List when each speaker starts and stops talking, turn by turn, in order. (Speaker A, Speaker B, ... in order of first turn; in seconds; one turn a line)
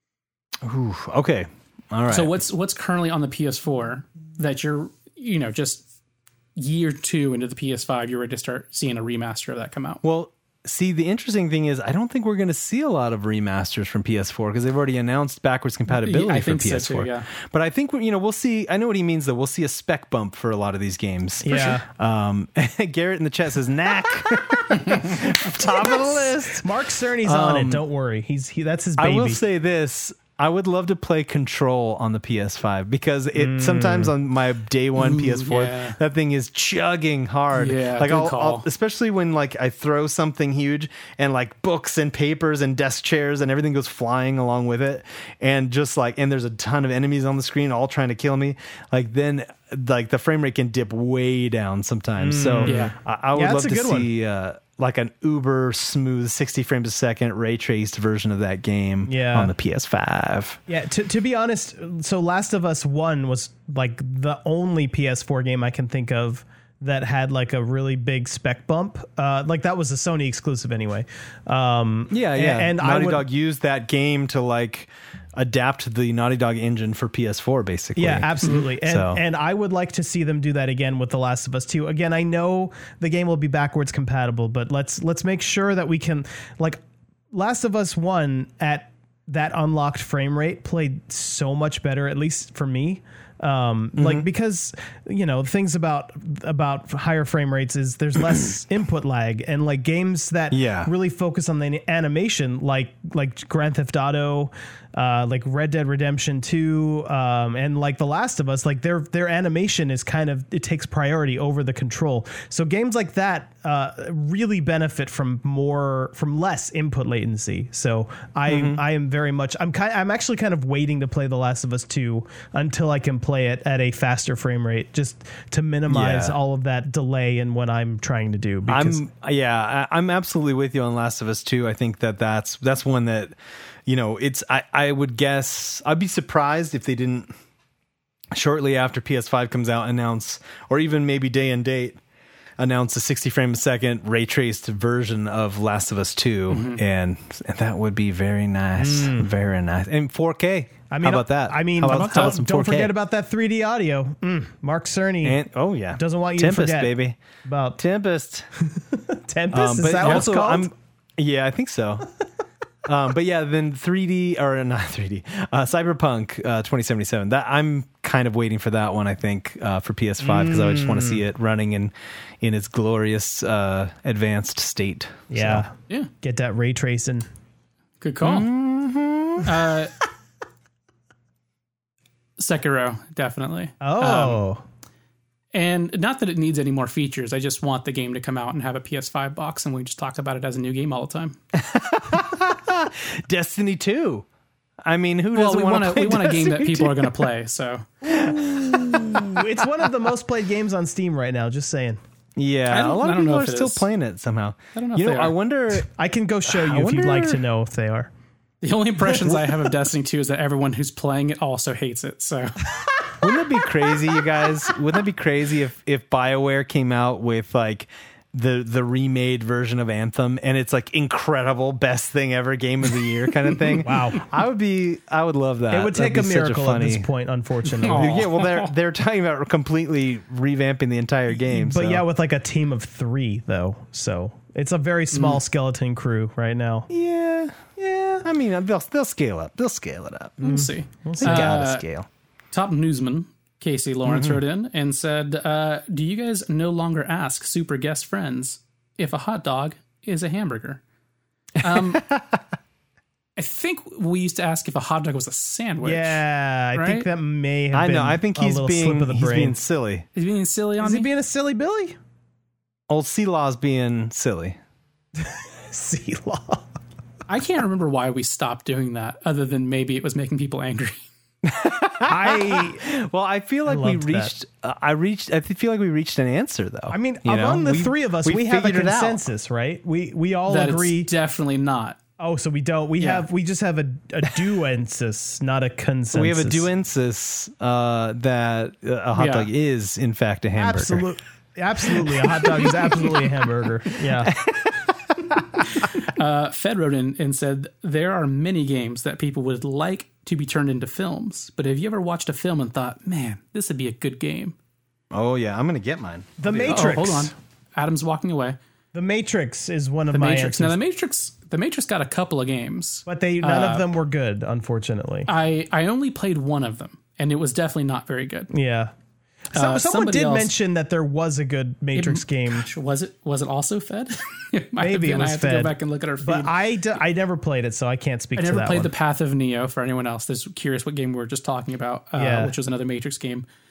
Speaker A: 0.6-2.3
Speaker B: 2.1-5.8
Speaker B: 6.6-10.0
Speaker A: 10.0-26.7
Speaker B: 15.9-17.3
Speaker C: 21.4-21.9
Speaker C: 26.5-29.4
Speaker A: 27.2-27.8
Speaker A: 29.0-60.6
Speaker C: 33.4-34.1
Speaker B: 35.0-36.0
Speaker B: 37.5-38.7
Speaker C: 52.2-54.1
Speaker B: 52.6-53.0
Speaker C: 59.1-59.5
Speaker C: 60.7-73.2
Speaker A: 72.1-79.2
Speaker C: 78.0-86.8
Speaker C: 87.3-129.0
Speaker A: 94.0-94.3
Speaker A: 100.5-100.9
Speaker A: 118.5-118.8
Speaker A: 125.9-126.4
Speaker A: 128.7-137.3
Speaker A: 138.3-142.0
Speaker A: 142.6-152.9
Speaker B: 146.5-146.8
Speaker C: 148.8-149.3
Speaker C: 150.9-155.4
Speaker B: 151.8-152.4
Speaker A: 155.2-157.2
Speaker C: 156.0-157.8
Speaker A: 157.8-158.5
Speaker C: 158.8-160.7
Speaker A: 159.5-162.1
Speaker A: 162.8-175.7
Speaker C: 170.2-171.2
Speaker C: 175.3-177.3
Speaker B: 178.0-178.5
Speaker A: 178.2-179.5
Speaker B: 179.4-179.9
Speaker B: 182.4-184.4
Speaker C: 183.8-184.6
Speaker B: 185.5-191.4
Speaker A: 191.5-194.3
Speaker A: 194.8-197.2
Speaker B: 195.3-197.9
Speaker C: 198.0-202.0
Speaker A: 198.1-199.4
Speaker A: 202.4-205.9
Speaker B: 202.7-203.9
Speaker B: 204.8-205.3
Speaker C: 205.9-208.1
Speaker A: 206.5-207.4
Speaker B: 208.6-212.7
Speaker C: 209.0-209.5
Speaker A: 213.2-227.1
Speaker C: 223.8-224.3
Speaker C: 225.7-228.3
Speaker B: 227.7-228.7
Speaker A: 227.9-232.1
Speaker C: 231.4-236.9
Speaker B: 235.1-235.4
Speaker A: 236.9-237.7
Speaker C: 237.8-238.3
Speaker A: 238.2-240.4
Speaker B: 240.4-241.8
Speaker C: 240.4-241.5
Speaker A: 241.2-242.1
Speaker B: 242.5-250.8
Speaker A: 244.1-244.4
Speaker B: 251.6-252.1
Speaker A: 251.6-252.4
Speaker B: 253.4-256.2
Speaker C: 255.8-259.6
Speaker B: 256.7-257.1
Speaker A: 257.7-260.1
Speaker B: 260.1-261.1
Speaker C: 260.8-262.0
Speaker A: 262.9-264.6
Speaker C: 265.2-266.7
Speaker B: 267.3-271.1
Speaker A: 271.4-279.3
Speaker C: 272.1-272.8
Speaker C: 273.7-274.3
Speaker C: 276.9-281.1
Speaker B: 280.5-282.0
Speaker C: 282.2-286.7
Speaker B: 283.0-283.3
Speaker A: 286.1-291.1
Speaker B: 289.2-289.5
Speaker C: 290.6-294.3
Speaker A: 292.2-292.7
Speaker A: 294.1-294.7
Speaker B: 296.0-304.6
Speaker A: 305.1-306.9
Speaker C: 306.4-307.3
Speaker B: 306.6-308.6
Speaker C: 308.9-310.8
Speaker B: 310.1-314.0
Speaker C: 313.1-315.3
Speaker B: 315.3-318.5
Speaker C: 318.5-318.9
Speaker B: 319.5-320.5
Speaker C: 319.5-322.7
Speaker B: 321.9-326.5
Speaker C: 324.8-328.9
Speaker B: 328.4-333.5
Speaker C: 332.2-332.5